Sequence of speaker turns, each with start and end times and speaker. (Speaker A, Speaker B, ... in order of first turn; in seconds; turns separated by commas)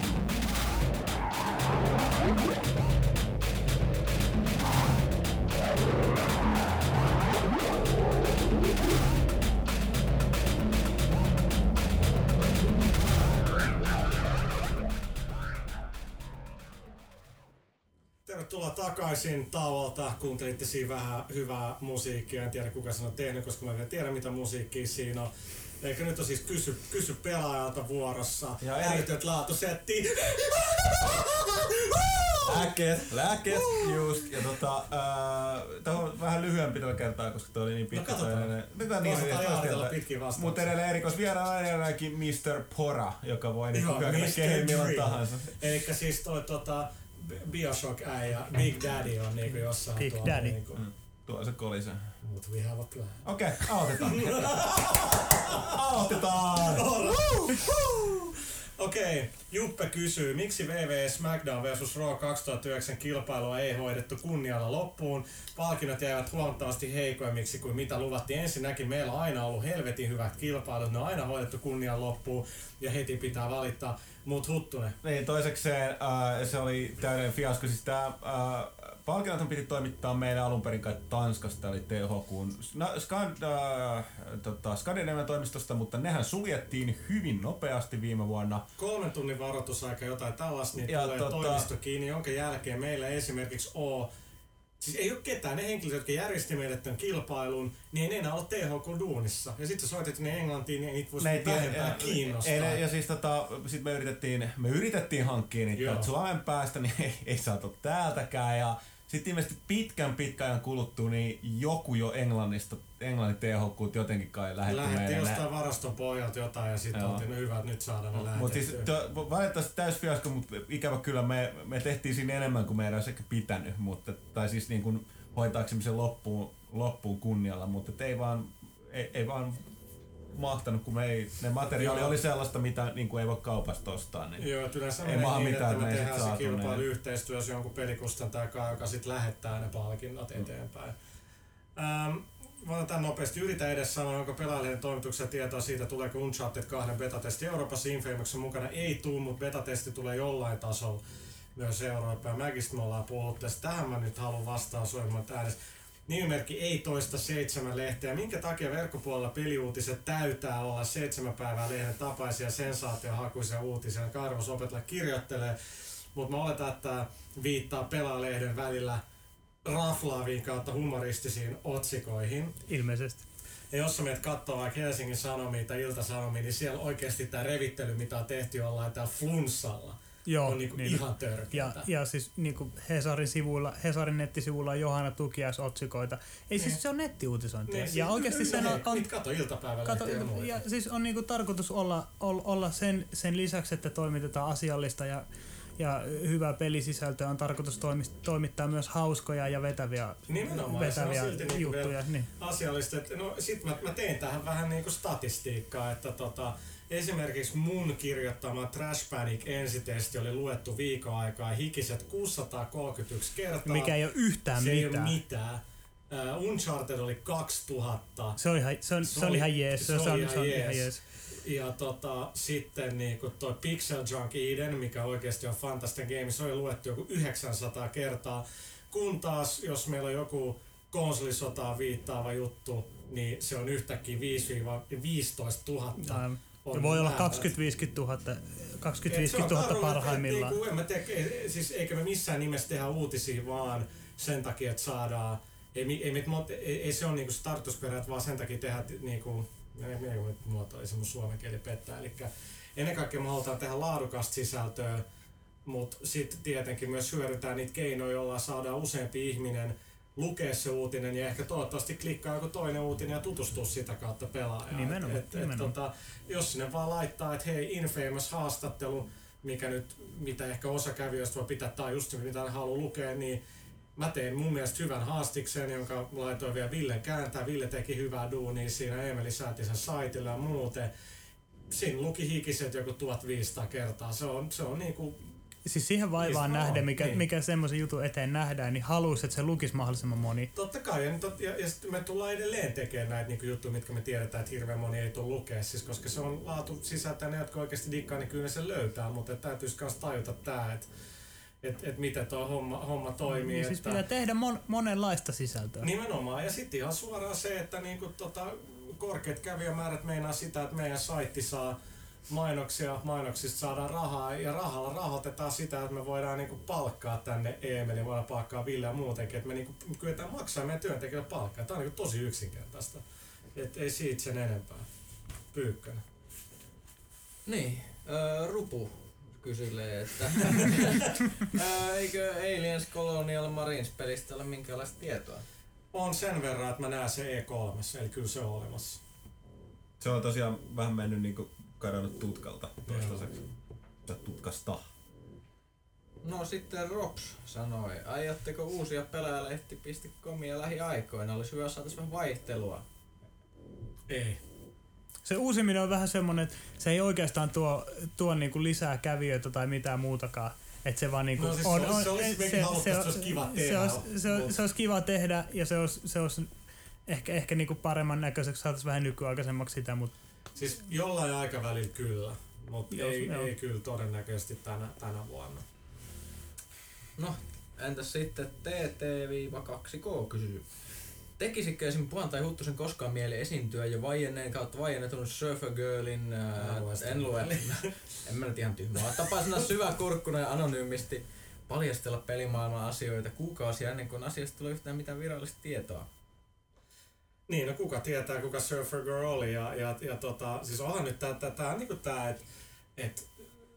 Speaker A: 18.2-32.8, Speaker B: 28.6-29.1, Speaker B: 32.4-45.7, Speaker A: 33.4-34.3, Speaker A: 37.9-40.7, Speaker A: 43.7-50.8, Speaker C: 49.9-50.6, Speaker B: 50.7-52.2, Speaker A: 52.2-58.2, Speaker B: 53.2-57.8, Speaker A: 58.8-75.0, Speaker B: 75.0-88.7, Speaker A: 88.8-94.1, Speaker B: 90.8-91.7, Speaker A: 94.8-102.8, Speaker B: 101.2-115.5, Speaker A: 105.7-106.1, Speaker A: 114.7-118.9, Speaker B: 116.9-117.2, Speaker B: 118.2-129.7, Speaker B: 130.3-134.5, Speaker A: 131.7-132.2, Speaker A: 134.4-140.9, Speaker B: 135.0-136.8, Speaker A: 141.8-151.0, Speaker A: 151.5-169.0, Speaker A: 169.6-172.6, Speaker C: 172.7-173.2, Speaker A: 173.7-181.9, Speaker C: 180.2-189.1, Speaker A: 187.7-190.6, Speaker C: 189.8-195.2, Speaker C: 195.8-202.3, Speaker A: 200.3-213.9, Speaker C: 213.7-215.2, Speaker A: 214.5-218.4, Speaker C: 218.4-221.0, Speaker A: 219.0-237.5, Speaker C: 236.0-240.6, Speaker A: 239.1-255.0, Speaker A: 255.6-273.4, Speaker C: 264.7-265.7, Speaker A: 273.9-280.9, Speaker A: 281.7-285.3, Speaker C: 285.6-290.5, Speaker A: 286.2-287.2, Speaker A: 290.5-300.9, Speaker A: 301.6-304.0, Speaker C: 303.3-305.9, Speaker A: 305.8-323.0, Speaker A: 323.5-324.9, Speaker A: 325.5-326.0, Speaker D: 327.4-335.4, Speaker A: 335.9-339.0, Speaker B: 340.0-343.4, Speaker A: 342.9-343.2, Speaker B: 344.0-344.9, Speaker D: 346.2-352.8, Speaker A: 354.1-354.4, Speaker C: 355.2-366.5, Speaker A: 361.4-364.5, Speaker C: 367.1-370.1, Speaker A: 370.5-375.6, Speaker C: 372.9-373.5, Speaker D: 377.2-396.1, Speaker A: 386.6-388.0, Speaker A: 397.5-402.4, Speaker A: 402.9-403.3